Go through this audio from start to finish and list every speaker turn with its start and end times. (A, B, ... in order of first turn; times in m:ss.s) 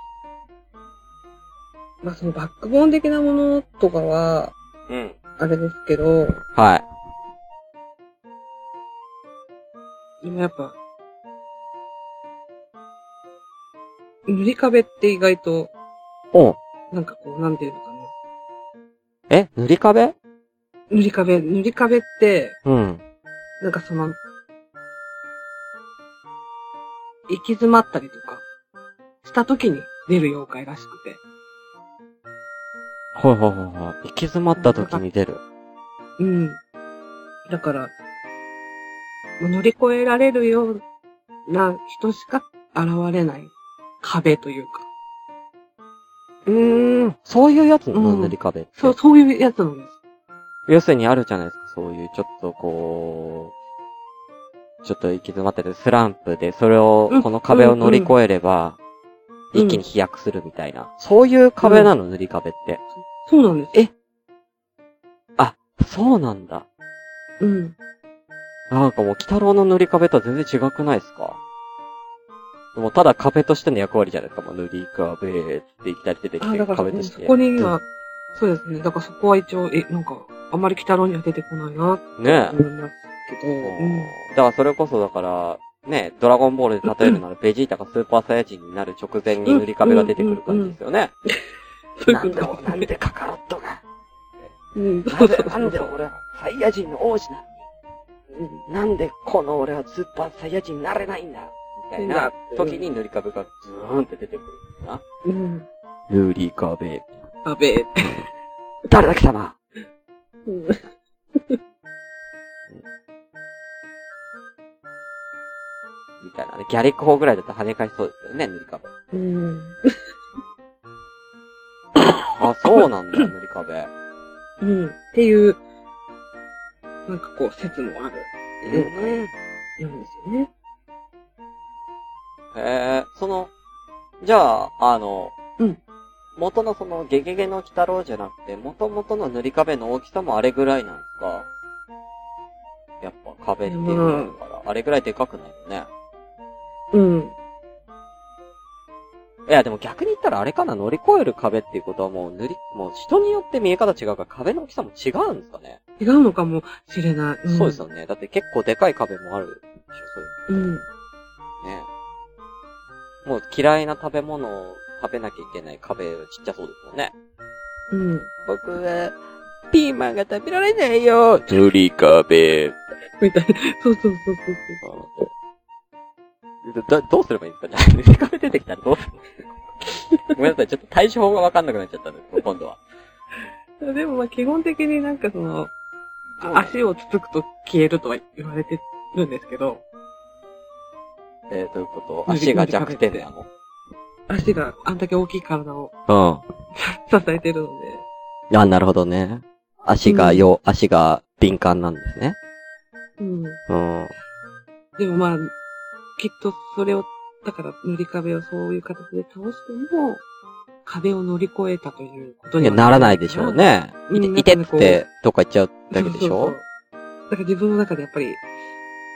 0:02.0-0:04.5 A
0:04.9-0:05.2 B
0:05.4-0:06.4 A
0:06.5-0:06.8 B
0:10.2-0:10.8 A
0:14.2-0:15.7 A
0:16.3-0:16.6 B
0:16.9-0:18.1 A
0:19.3-0:20.1 B
0:20.9-0:22.6 A
0:22.6-0:23.0 B
0:23.6-0:24.2 A
0:27.3-0:28.4 A
0:29.2-0:31.2 A
0:33.1-0:35.4 B
0:34.6-0:35.0 A
0:36.2-0:36.6 A
0:37.5-0:37.9 A
0:39.4-0:40.8 A
0:41.5-0:44.9 A
0:46.4-0:49.0 B
0:47.9-0:49.9 A
0:50.7-0:53.5 B
0:54.8-0:58.8 B
0:57.1-0:58.1 A
0:59.5-1:02.8 B
0:59.5-0:59.8 A
1:01.6-1:01.9 A
1:03.2-1:03.8 A
1:05.4-1:06.7 B
1:07.4-1:07.8 A
1:08.7-1:11.4 B
1:12.8-1:17.8 B
1:16.4-1:17.8 A
1:18.3-1:24.1 A
1:22.2-1:22.6 B
1:23.6-1:31.1 B
1:29.4-1:32.9 A
1:32.1-1:33.8 B
1:34.8-1:35.9 A
1:35.1-1:37.5 B
1:38.7-1:45.0 B
1:42.0-1:42.9 A
1:45.2-1:45.7 A
1:46.1-1:47.2 B
1:47.4-1:48.2 A
1:48.9-1:49.6 B
1:50.4-1:51.6 A
1:56.2-1:58.9 B
1:59.1-1:59.8 A
2:02.4-2:03.9 B
2:04.6-2:05.6 A
2:07.1-2:09.2 A
2:08.6-2:09.3 B
2:09.8-2:10.5 A
2:12.5-2:13.5 B
2:14.2-2:15.4 B
2:16.4-2:21.5 B
2:23.0-2:25.9 B
2:23.7-2:24.4 A
2:26.9-2:27.3 A
2:29.5-2:35.8 B
2:36.0-2:37.8 A
2:37.5-2:40.7 B
2:40.5-2:40.8 A
2:41.6-2:41.9 B
2:43.2-2:47.1 B
2:47.9-2:48.3 A
2:48.5-2:49.2 B
2:49.7-2:52.8 B
2:53.2-2:55.3 A
2:54.8-2:55.1 B
2:56.6-2:59.2 B
3:00.3-3:02.8 B
3:03.8-3:05.7 A
3:06.4-3:06.8 B
3:06.4-3:09.8 A
3:11.5-3:13.5 B
3:12.3-3:13.3 A
3:14.3-3:15.9 A
3:16.1-3:16.4 B
3:16.8-3:18.0 A
3:18.5-3:22.4 B
3:20.0-3:20.5 A
3:23.2-3:23.6 A
3:23.7-3:24.1 B
3:25.0-3:25.5 A
3:26.2-3:30.2 A
3:30.8-3:35.0 A
3:32.6-3:36.6 B
3:35.9-3:36.6 A
3:37.3-3:38.4 A